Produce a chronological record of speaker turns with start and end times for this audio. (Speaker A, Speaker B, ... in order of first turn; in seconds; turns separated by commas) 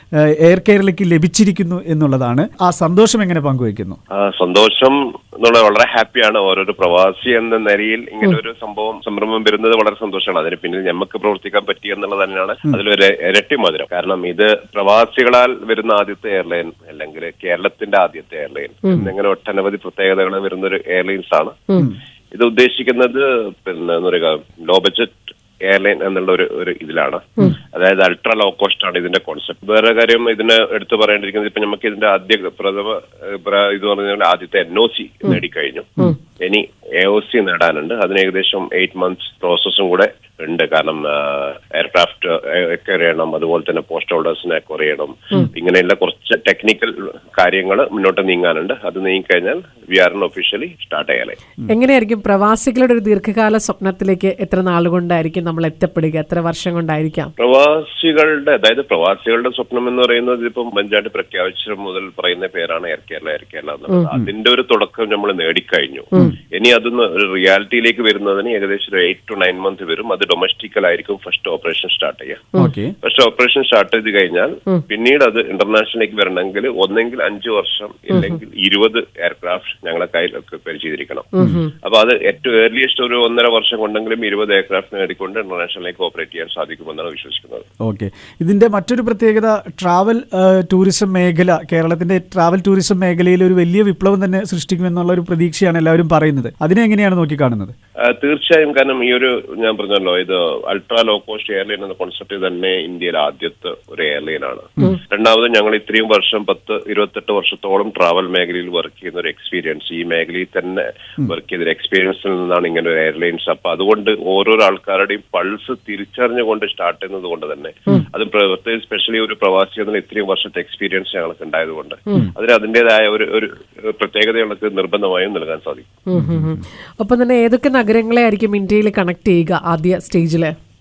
Speaker A: 0.4-4.0, Speaker B: 4.1-51.4, Speaker C: 51.7-57.3, Speaker B: 57.4-72.5, Speaker A: 72.6-72.9, Speaker B: 73.0-87.7, Speaker C: 81.3-81.7, Speaker A: 87.8-97.7, Speaker B: 98.1-126.0, Speaker C: 126.1-130.5, Speaker A: 126.1-126.6